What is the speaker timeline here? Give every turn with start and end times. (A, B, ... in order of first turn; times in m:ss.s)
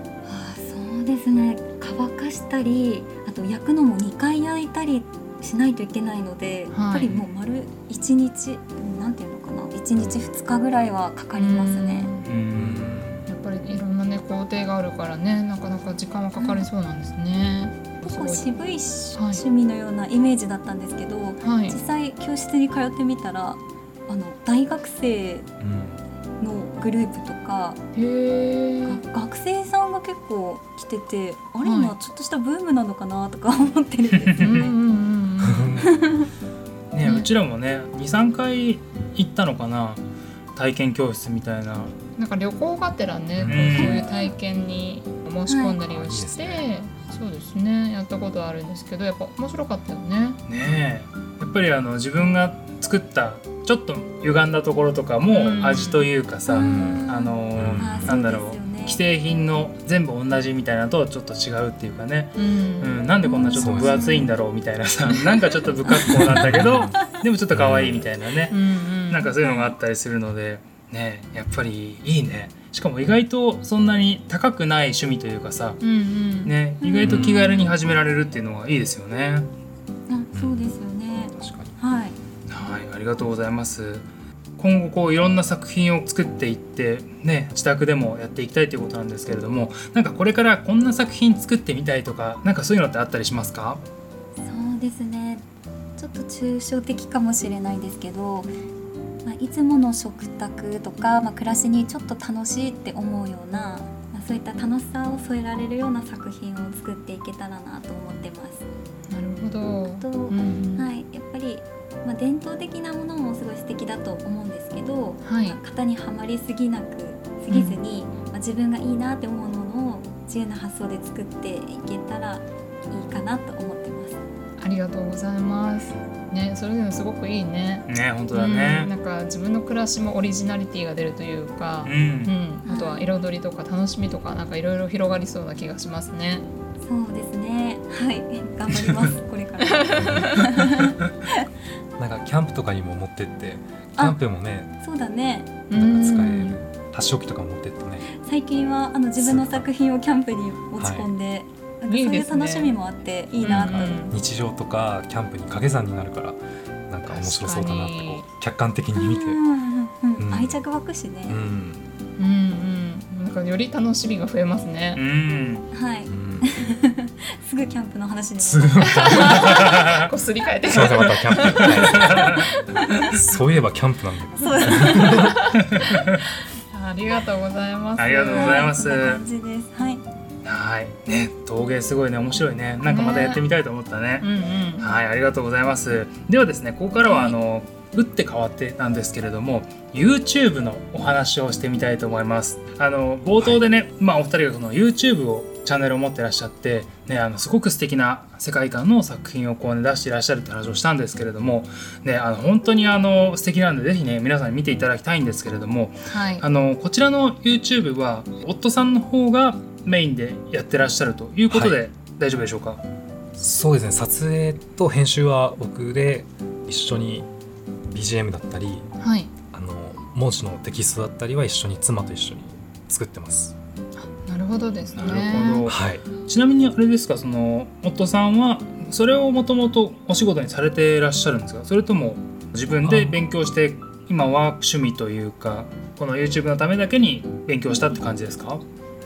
0:00.2-0:12.1 A
0:06.7-0:07.2 B
0:11.3-0:12.3 B
0:12.2-0:13.2 C
0:12.5-0:13.2 D
0:13.3-0:19.4 B
0:16.4-0:16.6 A
0:18.0-0:25.5 A
0:21.4-0:21.8 B
0:25.6-0:26.0 D
0:26.4-0:27.8 A
0:27.9-0:29.0 B
0:28.8-0:34.7 A
0:31.6-0:31.9 B
0:34.1-0:34.7 C
0:34.4-0:35.8 B
0:35.4-0:36.0 D
0:35.8-0:36.3 A
0:36.9-0:40.0 C
0:40.6-0:41.9 C
0:42.2-0:50.4 B
0:43.4-0:43.8 D
0:43.5-0:44.0 C
0:43.7-0:44.3 A
0:45.5-0:45.8 A
0:45.8-0:46.7 D
0:50.5-1:08.6 C
0:55.3-0:56.1 B
0:56.5-0:59.0 A
0:56.6-0:58.1 D
1:02.4-1:03.0 B
1:03.2-1:04.3 A
1:03.5-1:04.0 D
1:03.9-1:04.2 B
1:06.0-1:06.3 A
1:06.3-1:08.1 D
1:08.5-1:09.3 B
1:09.1-1:15.8 C
1:15.8-1:17.7 B
1:16.4-1:19.5 C
1:16.9-1:17.3 A
1:17.0-1:17.3 D
1:20.1-1:22.2 A
1:20.3-1:20.7 D
1:21.4-1:21.8 D
1:22.5-1:24.0 C
1:24.6-1:33.8 C
1:34.4-1:35.4 A
1:36.0-1:38.5 A
1:39.2-1:48.6 A
1:49.1-1:50.9 B
1:49.8-2:04.2 A
1:55.2-1:55.6 B
1:57.5-1:57.8 B
2:04.6-2:16.4 B
2:07.9-2:08.9 C
2:11.8-2:12.3 C
2:12.6-2:13.1 A
2:16.8-2:21.4 A
2:19.6-2:20.5 B
2:20.0-2:20.5 D
2:22.0-2:24.7 D
2:24.8-2:25.6 A
2:25.7-2:26.6 B
2:25.7-2:28.0 D
2:28.1-2:34.0 A
2:29.2-2:29.6 D
2:30.8-2:31.1 D
2:31.9-2:32.7 B
2:33.4-2:34.1 B
2:33.4-2:39.4 D
2:37.1-2:38.2 B
2:39.0-2:41.4 A
2:40.2-2:40.6 D
2:41.3-2:41.8 D
2:42.2-2:45.0 B
2:45.0-2:45.7 C
2:45.7-2:49.6 A
2:46.1-2:46.8 D
2:48.4-2:49.6 D
2:48.8-2:53.2 B
2:49.5-2:50.1 C
2:50.6-2:52.3 D
2:51.6-2:52.4 C
2:53.1-2:55.4 D
2:54.4-2:55.3 A
2:54.4-2:56.0 B
2:55.6-2:56.2 C
2:56.7-2:58.7 B
2:58.0-2:59.2 C
2:58.3-3:00.0 A
3:00.4-3:04.3 C
3:02.8-3:03.4 B
3:04.2-3:04.9 B
3:04.8-3:32.8 C
3:07.1-3:07.4 A
3:26.0-3:26.4 B
3:31.5-3:31.8 D
3:33.4-3:37.3 D
3:37.9-3:38.9 D
3:39.0-3:39.3 B
3:39.5-3:43.6 D
3:44.0-3:45.7 B
3:44.9-3:58.6 C
3:45.7-3:46.0 D
3:52.8-3:53.2 D